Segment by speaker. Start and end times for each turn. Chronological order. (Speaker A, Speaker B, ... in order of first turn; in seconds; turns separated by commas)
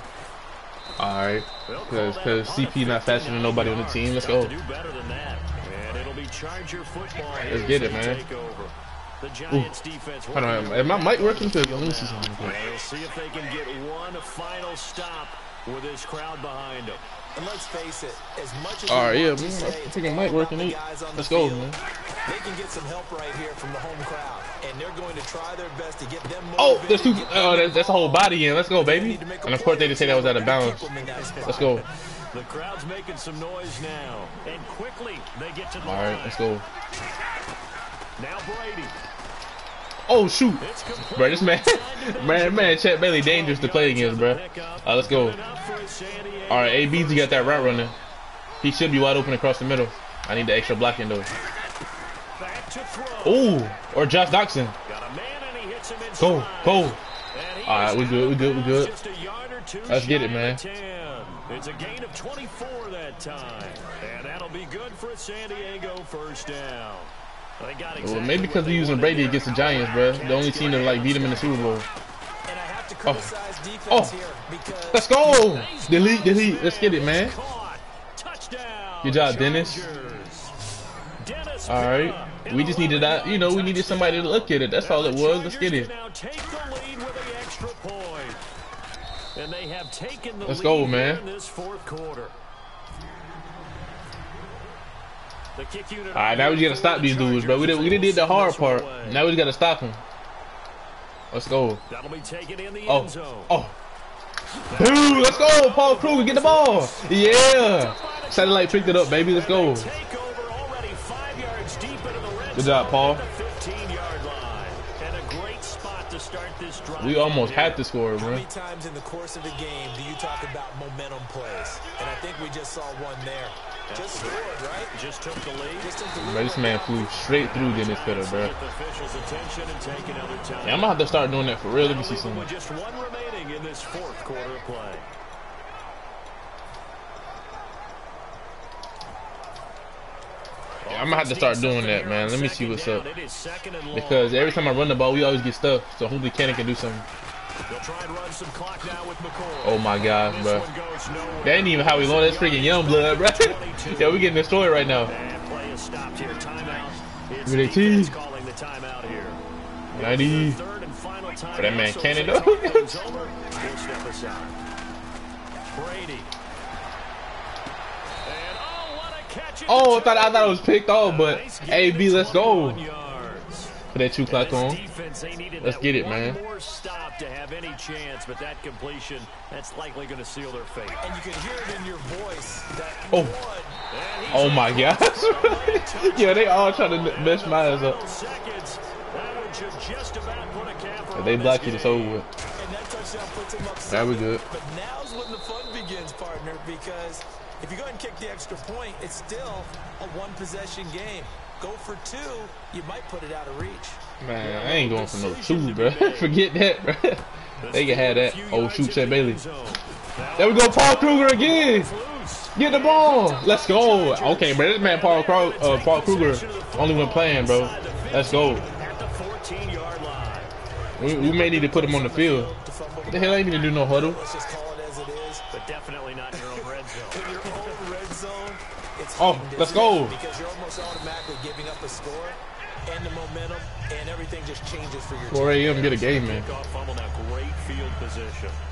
Speaker A: 1.0-4.5, Speaker B: 1.6-17.0, Speaker A: 7.5-8.2, Speaker A: 10.3-12.6, Speaker C: 17.4-31.9, Speaker A: 18.9-21.8, Speaker A: 26.6-30.9, Speaker B: 31.3-31.6, Speaker A: 31.4-31.9, Speaker B: 32.3-36.4, Speaker A: 35.8-36.6, Speaker B: 38.2-39.0, Speaker A: 40.1-45.4, Speaker B: 40.6-47.9, Speaker A: 46.5-48.0, Speaker A: 48.6-51.3, Speaker B: 52.4-53.6, Speaker A: 53.2-54.7, Speaker B: 54.9-71.9, Speaker A: 56.2-57.0, Speaker A: 57.6-58.9, Speaker A: 59.9-60.6, Speaker A: 68.0-71.9, Speaker C: 72.5-75.2, Speaker A: 73.0-73.3, Speaker A: 73.9-74.1, Speaker A: 74.9-77.4, Speaker B: 75.2-80.5, Speaker A: 79.0-79.9, Speaker B: 81.2-88.4, Speaker A: 81.7-85.9, Speaker B: 89.3-92.4, Speaker A: 90.4-91.2, Speaker B: 95.5-99.2, Speaker A: 96.1-100.0, Speaker A: 101.3-101.8, Speaker B: 101.9-103.5, Speaker A: 102.9-103.7, Speaker B: 104.7-117.8, Speaker A: 104.7-109.9, Speaker A: 112.5-113.2, Speaker A: 117.0-118.5, Speaker C: 118.2-124.9, Speaker B: 123.9-126.0, Speaker C: 125.8-127.1, Speaker A: 126.2-128.6, Speaker B: 127.2-131.1, Speaker A: 130.6-132.5, Speaker B: 131.7-135.1, Speaker B: 140.8-144.4, Speaker A: 140.9-143.1, Speaker A: 143.9-147.0, Speaker B: 147.7-154.3, Speaker A: 149.6-150.7, Speaker A: 151.4-155.1, Speaker B: 155.0-159.4, Speaker A: 157.4-158.2, Speaker B: 159.9-164.6, Speaker A: 159.9-160.6, Speaker A: 161.5-163.0, Speaker B: 165.7-166.3, Speaker B: 168.2-173.7, Speaker A: 169.7-172.8, Speaker A: 173.9-174.8, Speaker B: 174.3-181.0, Speaker A: 175.6-176.4, Speaker C: 181.0-183.8, Speaker A: 183.1-183.4, Speaker B: 183.9-192.3, Speaker A: 184.3-188.0, Speaker A: 191.1-192.2, Speaker C: 192.6-204.0, Speaker A: 193.9-194.4, Speaker A: 204.2-209.4, Speaker B: 204.4-206.4, Speaker B: 207.6-220.5, Speaker A: 210.4-211.9, Speaker A: 212.5-218.7, Speaker A: 221.0-222.5, Speaker C: 221.0-225.4, Speaker A: 223.1-224.2, Speaker B: 225.5-227.8, Speaker C: 226.3-236.1, Speaker A: 229.2-230.2, Speaker A: 235.3-236.5, Speaker B: 235.9-238.6